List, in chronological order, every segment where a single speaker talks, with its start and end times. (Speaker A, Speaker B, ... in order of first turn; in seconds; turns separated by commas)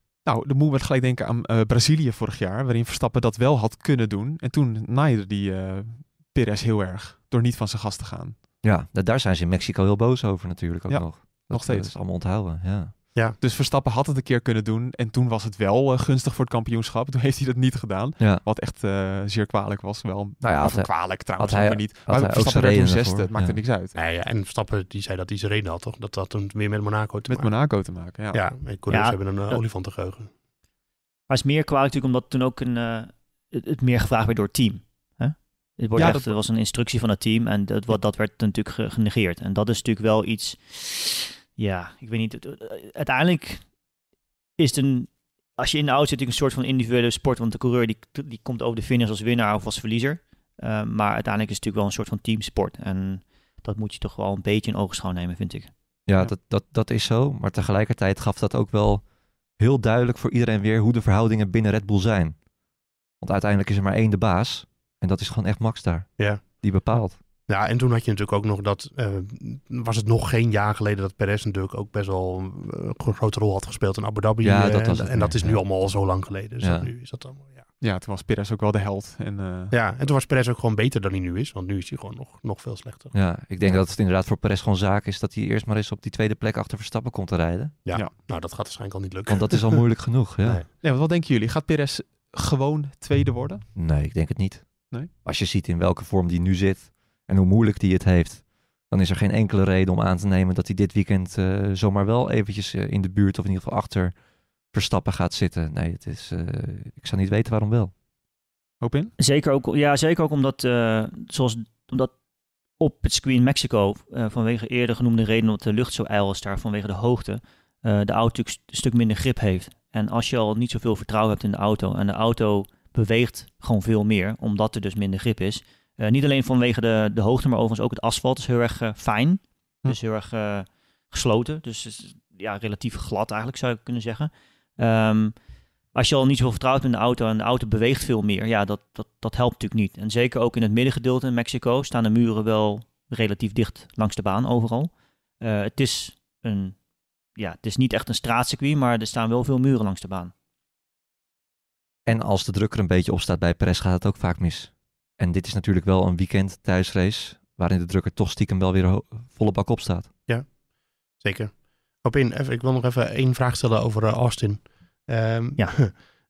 Speaker A: 0.2-8.4, Speaker B: 8.6-12.9, Speaker A: 10.9-11.9, Speaker A: 13.4-23.9, Speaker B: 18.2-18.4, Speaker B: 20.4-23.6, Speaker C: 23.9-30.3, Speaker A: 27.3-28.5, Speaker D: 28.9-29.6, Speaker D: 31.3-43.7, Speaker A: 36.0-36.4, Speaker D: 44.6-55.7, Speaker B: 56.0-59.0, Speaker B: 59.6-62.4, Speaker B: 63.2-67.2, Speaker C: 66.2-77.7, Speaker B: 74.4-75.8, Speaker B: 76.6-76.9, Speaker A: 77.8-79.7, Speaker C: 79.7-83.8, Speaker B: 83.1-87.8, Speaker C: 87.8-90.7, Speaker B: 89.3-90.6, Speaker A: 90.8-93.7, Speaker B: 93.8-104.2, Speaker B: 104.7-107.9, Speaker A: 108.8-109.1, Speaker D: 109.2-112.1, Speaker D: 112.8-135.3, Speaker D: 135.9-146.8, Speaker D: 147.3-150.3, Speaker B: 152.1-160.1, Speaker C: 161.2-165.9